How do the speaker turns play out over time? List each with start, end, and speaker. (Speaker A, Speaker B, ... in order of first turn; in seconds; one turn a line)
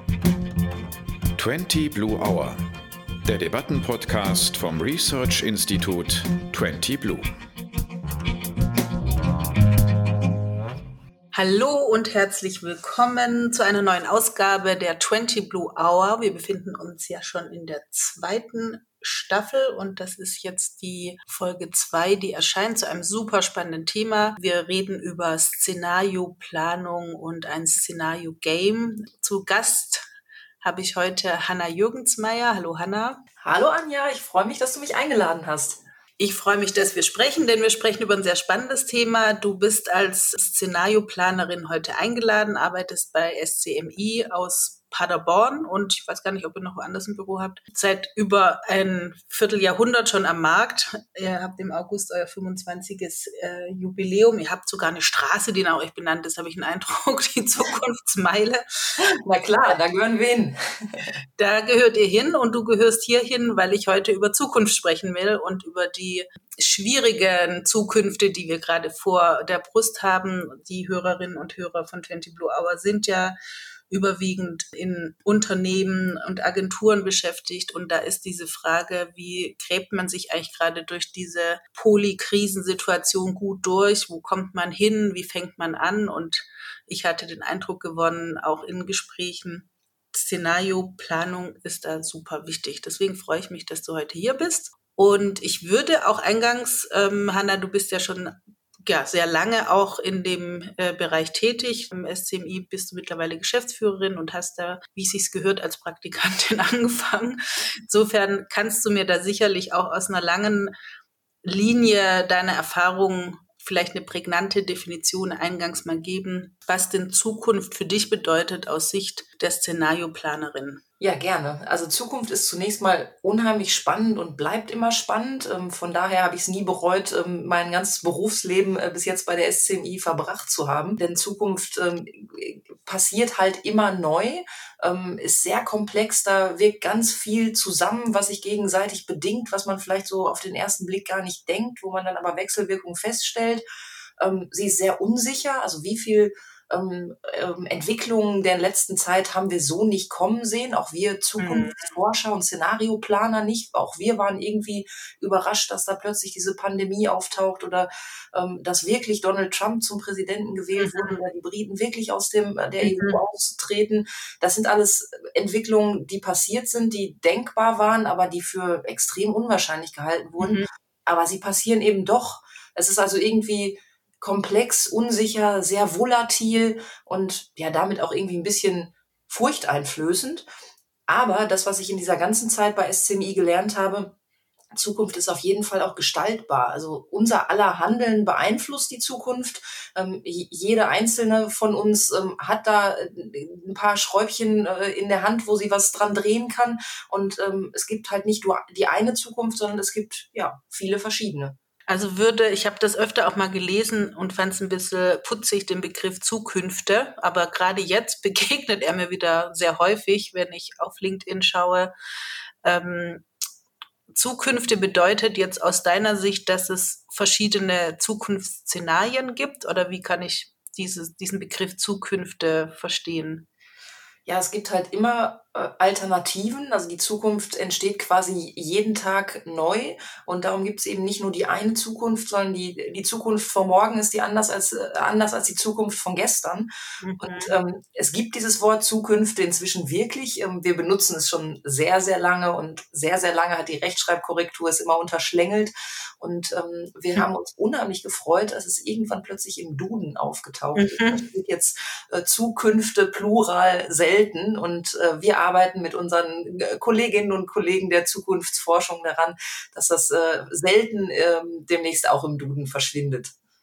Speaker A: 1.4-2.6
Speaker A: 3.2-7.3
Speaker B: 11.3-30.1
Speaker B: 30.6-33.2
Speaker C: 33.4-35.8
Speaker B: 36.2-58.6
Speaker C: 59.0-61.0
Speaker B: 61.4-73.4
Speaker B: 73.9-110.7
Speaker B: 111.4-120.8
Speaker C: 121.0-143.6
Speaker C: 144.2-180.5
Speaker B: 151.4-151.9
Speaker B: 160.8-161.2
Speaker B: 162.8-163.2
Speaker B: 170.4-170.7
Speaker C: 181.1-184.1
Speaker C: 184.7-201.6
Speaker B: 201.9-211.9
Speaker B: 212.6-213.2
Speaker B: 214.1-223.4
Speaker C: 224.2-263.3
Speaker B: 237.0-237.5
Speaker B: 250.8-251.2